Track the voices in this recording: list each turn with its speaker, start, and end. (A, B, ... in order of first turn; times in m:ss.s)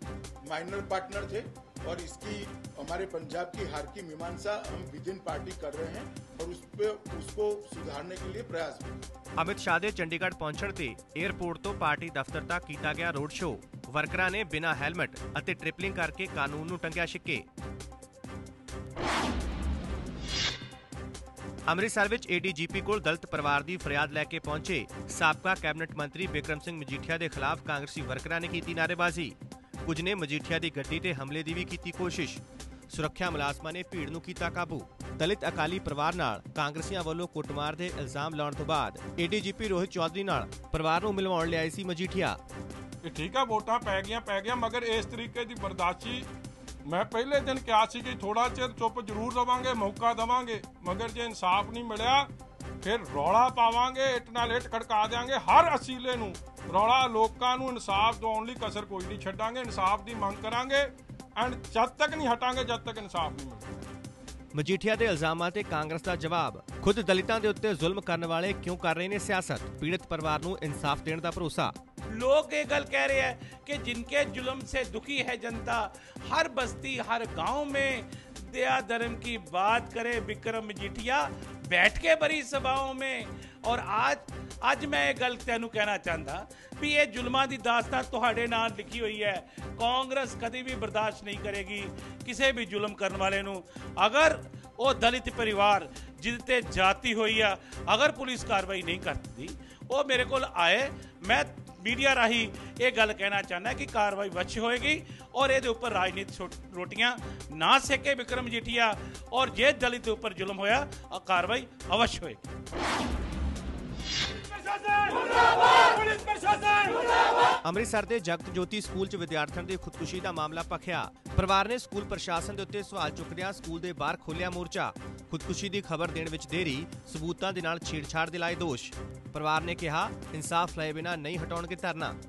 0:00.4-0:09.0 A
0:09.4-0:17.4 B
0:21.7-0:42.4 B
0:43.0-0:46.3 C
0:46.8-0:52.3 C
0:52.8-1:03.7 C
1:04.5-1:11.8 B
1:12.1-1:52.4 D
1:57.6-2:12.2 B